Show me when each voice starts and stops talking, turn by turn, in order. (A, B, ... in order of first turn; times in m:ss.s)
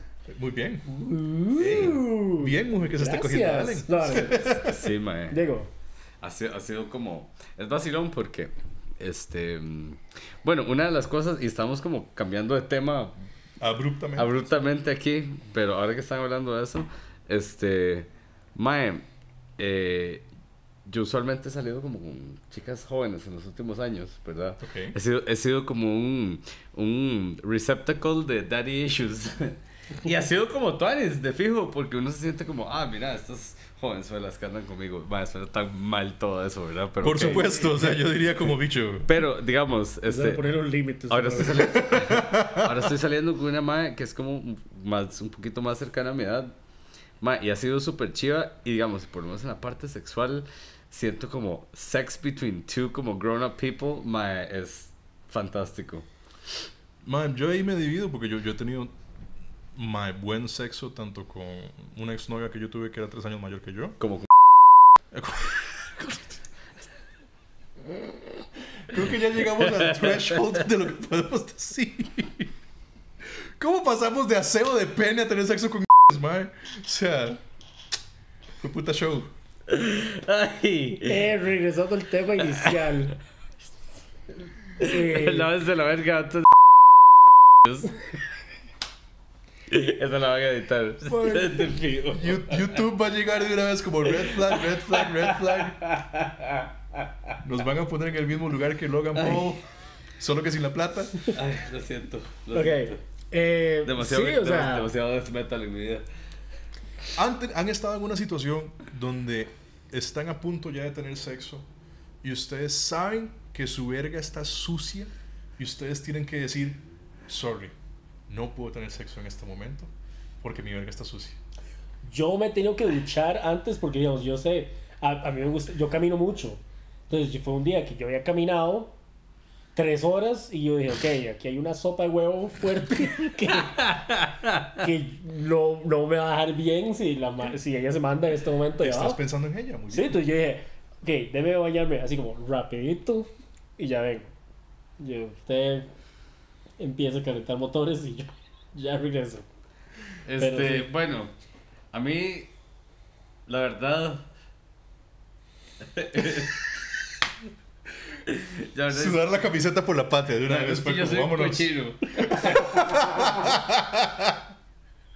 0:00.3-0:00.8 A
0:00.9-0:04.6 B
0:01.6-0:04.9 A
0:04.6-0:05.4 C
0:05.3-0:05.7 B
0:06.2-0:13.2 C
0:13.6-0:14.5 A
0:14.2-0:19.0 C
0:19.6-0:20.2 C
0:20.9-0:37.4 C
0:24.6-0:25.0 A
0:37.0-0:39.1 A
0:37.1-0:38.1 B
0:39.1-0:40.4 C
0:40.1-0:41.8 B
0:41.1-0:46.5 C
0:41.4-0:43.0 A
0:47.2-0:56.1 C
0:57.0-0:58.9 A
0:59.8-1:04.0 A
1:05.1-1:06.4 A
1:08.9-1:12.5 A
1:09.6-1:10.5 C
1:13.6-1:17.4 A
1:18.6-1:19.3 A
1:19.7-1:21.3 C
1:21.1-1:23.2 B
1:22.4-1:23.0 C
1:24.8-1:26.5 C
1:24.8-1:25.5 B
1:27.6-1:28.2 C
1:29.7-1:32.8 C
1:31.0-1:35.8 A
1:34.1-1:37.0 C
1:37.4-1:39.6 A
1:39.2-1:39.6 C
1:40.2-1:41.2 A
1:41.3-1:43.0 C
1:42.5-1:44.9 B
1:43.8-1:46.1 C
1:47.2-1:51.7 A
1:52.2-1:57.8 A
1:58.3-1:59.9 A
2:00.4-2:01.4 A
2:02.0-2:08.9 B
2:09.8-2:13.9 B
2:13.5-2:14.8 C
2:14.7-2:19.2 B
2:18.8-2:20.2 A
2:19.9-2:24.3 B
2:25.0-2:25.9 B
2:26.8-2:29.4 B
2:30.3-2:31.3 C
2:30.4-2:30.9 B
2:31.9-2:32.5 C
2:33.5-2:34.3 C
2:35.9-2:36.7 C
2:38.3-2:39.3 C
2:38.9-2:44.4 A
2:40.5-2:43.2 C